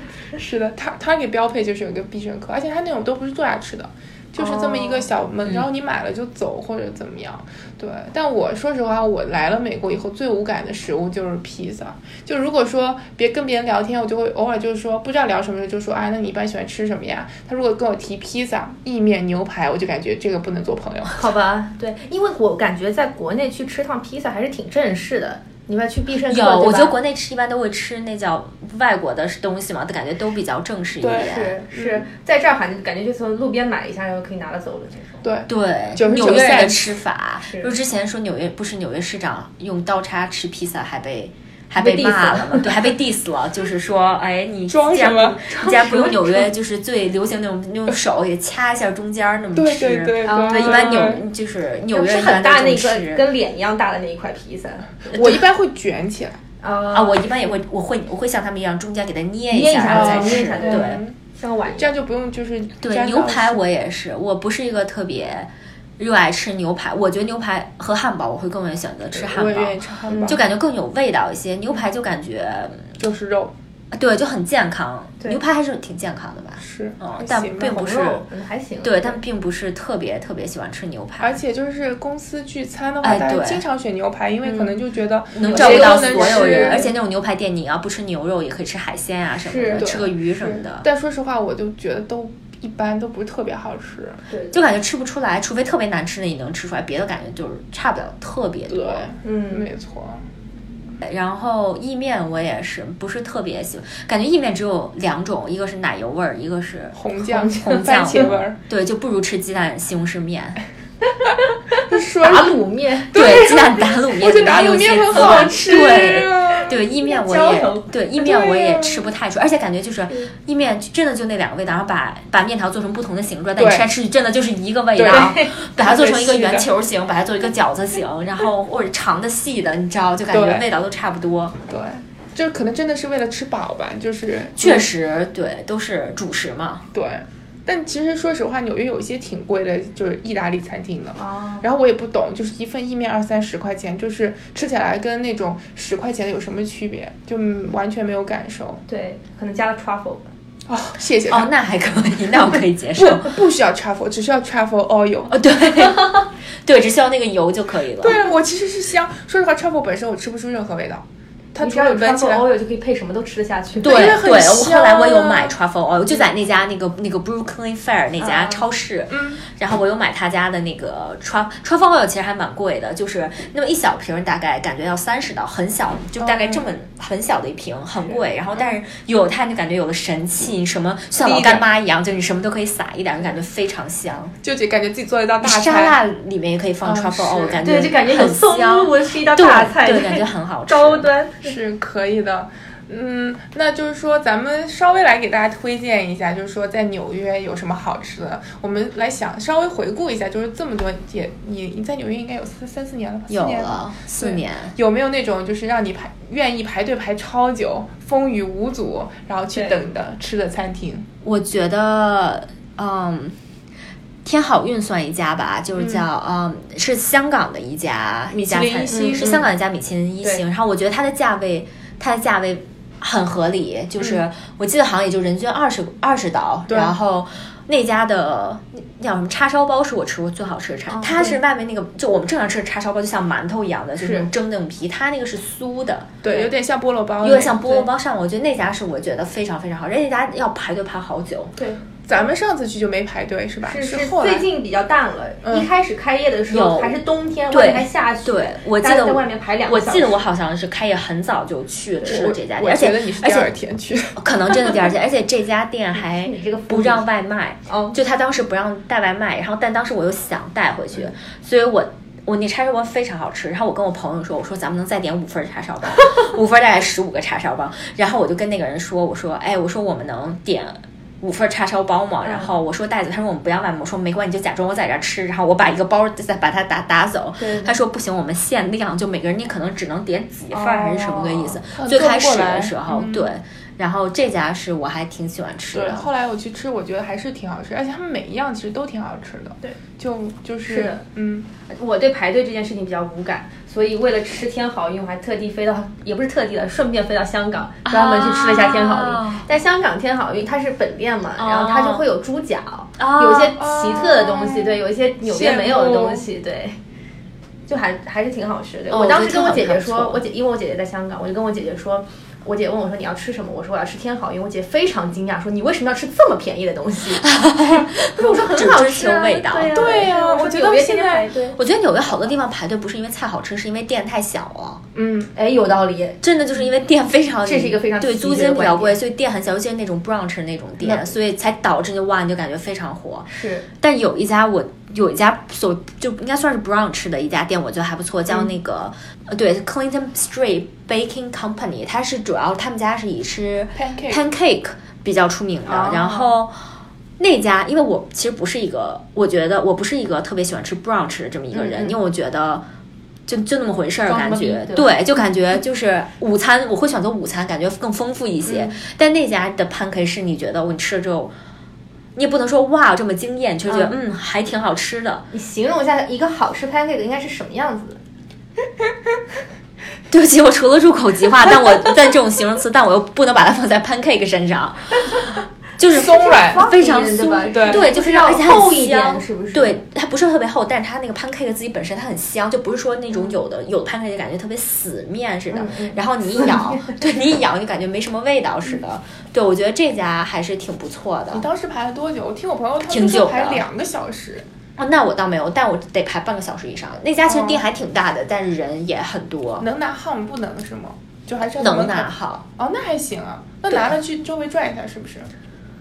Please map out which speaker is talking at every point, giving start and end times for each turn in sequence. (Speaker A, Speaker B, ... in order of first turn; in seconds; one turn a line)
Speaker A: 0.3-21.3
Speaker B: 4.4-5.1
Speaker B: 21.1-26.9
Speaker C: 26.3-31.5
Speaker A: 31.0-32.0
Speaker B: 31.2-35.3
Speaker A: 35.2-37.0
Speaker C: 35.5-53.3
Speaker B: 37.4-37.7
Speaker B: 41.8-42.8
Speaker A: 44.7-46.5
Speaker A: 49.5-51.3
Speaker B: 50.2-51.1
Speaker B: 51.9-55.4
Speaker A: 55.1-56.4
Speaker B: 56.6-57.2
Speaker C: 56.9-61.0
Speaker B: 59.5-61.9
Speaker A: 59.9-61.1
Speaker A: 61.8-63.6
Speaker C: 62.8-72.9
Speaker A: 69.1-70.4
Speaker B: 70.1-70.4
Speaker A: 73.0-73.5
Speaker C: 73.9-78.2
Speaker A: 76.6-77.8
Speaker B: 77.6-79.2
Speaker C: 78.8-81.4
Speaker A: 81.2-86.9
Speaker C: 83.0-83.7
Speaker B: 84.5-84.7
Speaker C: 85.3-90.9
Speaker B: 85.4-86.9
Speaker B: 89.5-89.9
Speaker A: 89.8-94.2
Speaker B: 94.3-94.6
Speaker C: 94.5-99.1
Speaker A: 98.7-100.2
Speaker B: 99.2-99.7
Speaker C: 101.0-110.6
Speaker A: 106.9-108.6
Speaker B: 107.3-108.3
Speaker B: 111.3-113.2
Speaker A: 111.9-112.6
Speaker A: 113.1-116.8
Speaker C: 113.1-131.6
Speaker B: 115.1-117.9
Speaker A: 118.2-119.1
Speaker A: 123.6-123.9
Speaker A: 125.0-126.7
Speaker B: 125.1-125.5
Speaker A: 130.3-130.6
Speaker A: 131.7-134.9
Speaker C: 134.6-136.8
Speaker A: 136.9-148.8
Speaker B: 141.2-141.6
Speaker B: 148.9-150.3
Speaker A: 150.7-151.5
Speaker C: 151.2-153.4
Speaker A: 153.0-155.3
Speaker C: 155.3-158.2
Speaker B: 155.8-156.3
Speaker A: 158.0-162.4
Speaker B: 161.6-164.2
Speaker A: 163.8-165.6
Speaker C: 163.8-184.4
Speaker B: 168.2-168.6
Speaker A: 169.1-169.4
Speaker A: 176.2-176.7
Speaker A: 181.2-181.7
Speaker A: 184.4-186.0
Speaker C: 185.4-191.1
Speaker A: 186.8-187.7
Speaker B: 187.6-191.6
Speaker A: 191.4-211.1
Speaker C: 203.3-204.7
Speaker B: 209.5-209.8
Speaker C: 211.2-213.4
Speaker C: 214.2-236.2
Speaker A: 218.3-219.4
Speaker B: 218.9-219.5
Speaker A: 226.7-226.9
Speaker B: 230.9-231.4
Speaker B: 234.0-234.3
Speaker A: 236.2-237.9
Speaker C: 237.2-241.5
Speaker B: 241.6-241.8
Speaker A: 242.1-244.5
Speaker B: 243.7-250.2
Speaker C: 246.5-247.0
Speaker C: 247.5-253.5
Speaker A: 252.0-254.7
Speaker C: 254.2-286.1
Speaker B: 256.1-257.0
Speaker B: 257.7-257.9
Speaker B: 272.2-272.5
Speaker B: 277.4-277.8
Speaker B: 280.5-281.4
Speaker A: 281.6-283.3
Speaker A: 285.7-291.5
Speaker B: 290.7-291.0
Speaker B: 291.7-306.8
Speaker C: 297.9-299.4
Speaker C: 301.4-302.1
Speaker C: 303.0-303.6
Speaker A: 303.6-306.2
Speaker B: 307.7-317.2
Speaker C: 308.9-310.2
Speaker C: 317.2-320.0
Speaker B: 318.1-321.6
Speaker A: 319.7-321.3
Speaker C: 321.6-324.8
Speaker A: 325.0-325.3
Speaker B: 325.3-326.2
Speaker C: 326.2-333.3
Speaker B: 327.4-329.0
Speaker B: 333.3-333.7
Speaker C: 333.8-346.6
Speaker A: 343.8-344.3
Speaker B: 345.6-346.3
Speaker C: 347.2-352.6
Speaker B: 351.6-351.9
Speaker C: 353.3-361.3
Speaker B: 354.1-354.9
Speaker B: 358.4-358.8
Speaker C: 362.2-365.3
Speaker B: 363.7-363.9
Speaker B: 365.3-368.0
Speaker C: 370.1-375.2
Speaker C: 375.8-391.5
Speaker A: 375.9-376.6
Speaker B: 376.2-379.8
Speaker A: 377.5-377.9
Speaker B: 385.5-386.9
Speaker A: 391.3-394.4
Speaker C: 392.9-393.7
Speaker C: 394.8-399.7
Speaker A: 397.3-397.6
Speaker A: 399.6-405.3
Speaker C: 401.6-402.4